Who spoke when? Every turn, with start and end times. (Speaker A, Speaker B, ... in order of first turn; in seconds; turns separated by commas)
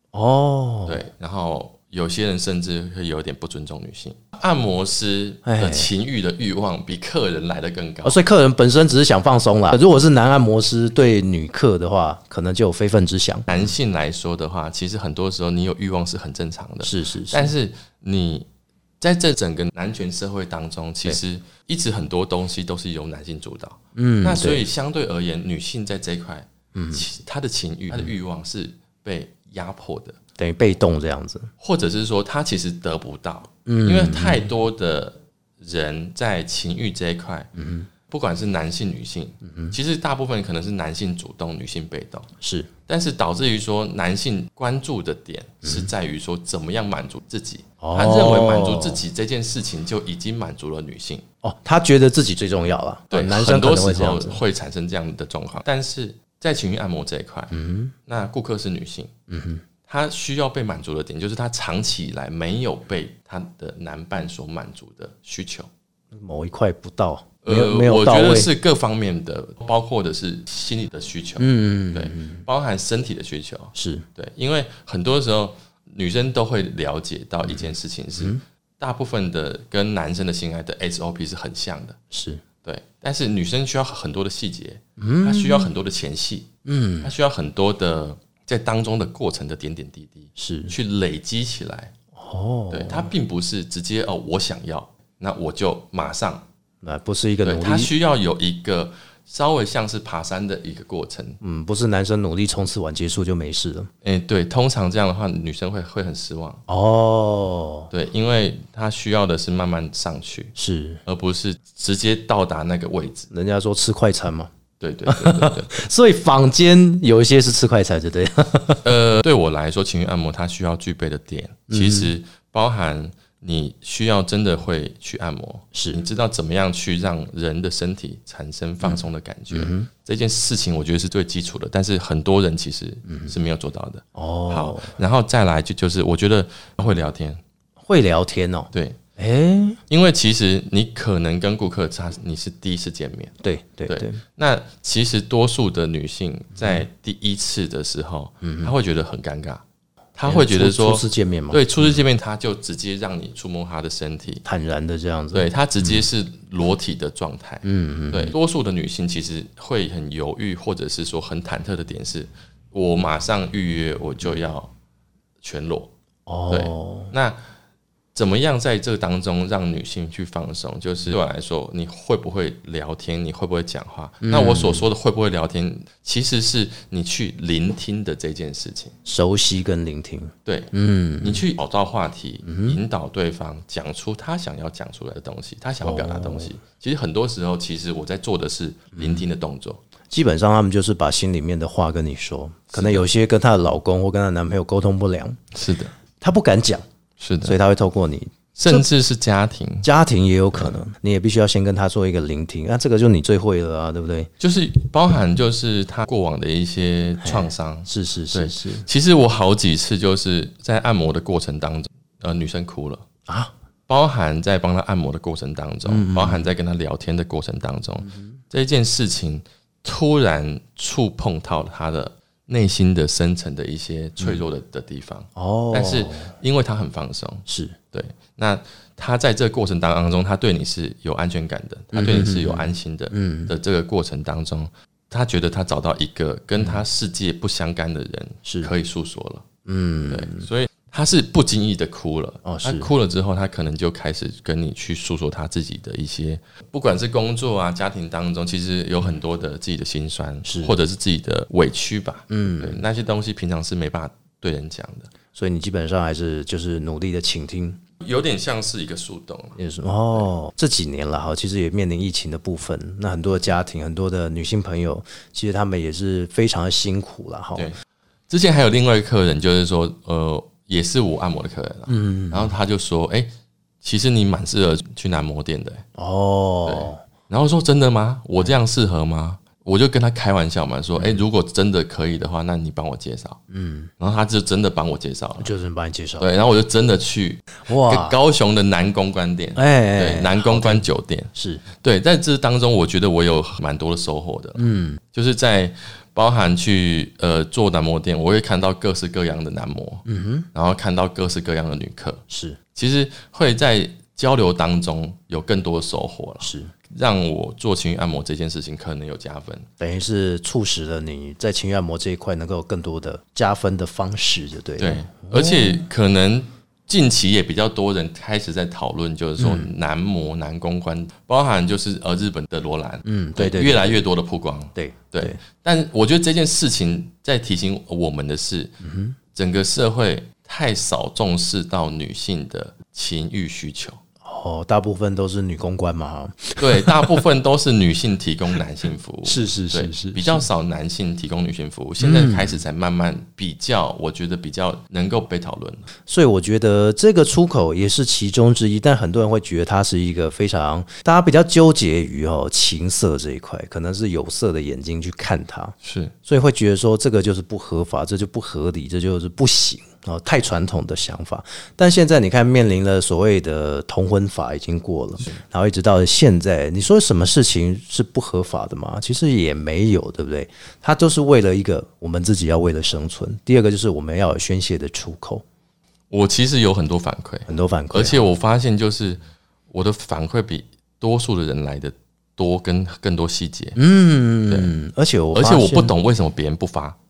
Speaker A: 0.1-1.0, Speaker B: 0.9-8.2, Speaker A: 5.4-5.9, Speaker A: 8.0-13.5, Speaker B: 13.5-18.5, Speaker A: 16.8-17.5, Speaker B: 19.0-30.2, Speaker A: 23.9-24.7, Speaker A: 26.7-27.0, Speaker A: 30.4-31.5, Speaker B: 31.6-37.5, Speaker A: 33.6-34.5, Speaker A: 37.5-37.9, Speaker B: 38.1-42.3, Speaker A: 39.4-39.7, Speaker A: 42.4-42.7, Speaker B: 42.9-51.2, Speaker A: 45.6-45.9, Speaker A: 47.8-49.0, Speaker A: 51.4-54.4, Speaker B: 53.1-57.5, Speaker A: 57.5-57.9, Speaker B: 58.0-59.1, Speaker A: 59.3-59.6, Speaker B: 59.9-65.7, Speaker A: 66.1-68.5, Speaker B: 67.4-82.0, Speaker A: 71.4-72.4, Speaker A: 73.7-74.0, Speaker A: 82.1-82.4, Speaker B: 82.6-86.5, Speaker A: 85.0-85.7, Speaker A: 86.6-87.1, Speaker B: 87.0-91.9, Speaker A: 90.4-90.7, Speaker A: 92.1-93.1, Speaker B: 92.7-96.4, Speaker A: 96.8-97.9, Speaker B: 97.4-101.4, Speaker A: 101.4-103.9, Speaker B: 104.0-106.6, Speaker A: 106.7-107.9, Speaker B: 107.9-110.5, Speaker A: 110.5-111.0, Speaker B: 111.0-113.3, Speaker A: 113.3-114.5, Speaker B: 114.8-115.8, Speaker A: 115.0-118.8, Speaker B: 118.8-137.4, Speaker A: 121.7-122.1, Speaker A: 125.7-126.0, Speaker A: 129.5-129.9, Speaker A: 133.1-133.3, Speaker A: 134.1-134.9, Speaker A: 137.8-139.8, Speaker B: 138.7-139.0, Speaker B: 139.9-143.3, Speaker A: 143.4-144.2, Speaker B: 143.9-149.6, Speaker A: 148.4-148.7, Speaker B: 150.2-154.4, Speaker A: 150.2-152.0, Speaker A: 154.4-156.0, Speaker B: 155.3-164.7, Speaker A: 157.6-158.3, Speaker B: 165.4-165.9, Speaker A: 166.3-167.1, Speaker B: 166.5-167.4, Speaker B: 168.1-178.9, Speaker A: 174.2-174.8, Speaker A: 179.0-181.4, Speaker B: 180.4-189.8, Speaker A: 182.4-182.8, Speaker A: 185.8-186.5, Speaker A: 188.9-189.2, Speaker A: 190.1-195.4, Speaker B: 192.7-193.0, Speaker B: 195.5-195.9, Speaker A: 196.2-196.8, Speaker B: 197.2-197.6, Speaker A: 197.4-198.8, Speaker B: 198.6-199.9, Speaker A: 199.8-204.3, Speaker B: 204.4-213.0, Speaker A: 207.2-208.8, Speaker A: 213.3-213.5, Speaker B: 213.9-239.4, Speaker A: 215.8-216.5, Speaker A: 225.3-226.3, Speaker A: 227.5-227.7, Speaker A: 231.9-233.5, Speaker A: 238.4-238.7, Speaker A: 239.6-240.5, Speaker B: 240.1-255.1, Speaker A: 242.4-242.9, Speaker A: 250.4-250.7, Speaker A: 252.3-252.8, Speaker A: 255.3-257.8, Speaker B: 258.0-259.6, Speaker A: 259.6-267.7, Speaker B: 267.6-273.3, Speaker A: 271.9-272.6, Speaker B: 273.8-275.8, Speaker A: 275.9-277.0, Speaker B: 276.6-283.4, Speaker A: 281.0-281.2, Speaker A: 283.5-283.9, Speaker B: 284.0-285.5, Speaker A: 285.4-286.3, Speaker B: 286.2-302.2, Speaker A: 287.6-288.2, Speaker A: 289.6-291.6, Speaker A: 294.6-295.0, Speaker A: 300.1-300.5, Speaker A: 302.3-302.6, Speaker B: 302.7-309.7, Speaker A: 306.4-306.7, Speaker A: 309.8-315.8, Speaker B: 314.8-328.8, Speaker A: 319.4-319.7, Speaker A: 323.0-323.9, Speaker A: 324.7-325.4, Speaker A: 328.8-329.2, Speaker B: 329.3-334.0, Speaker A: 334.2-337.2, Speaker B: 336.6-345.9, Speaker A: 339.2-340.4, Speaker A: 342.0-342.5, Speaker A: 346.1-375.4, Speaker B: 355.8-356.1, Speaker B: 376.1-383.8, Speaker A: 377.5-378.2, Speaker A: 383.8-385.9, Speaker B: 384.5-384.7, Speaker B: 385.3-387.0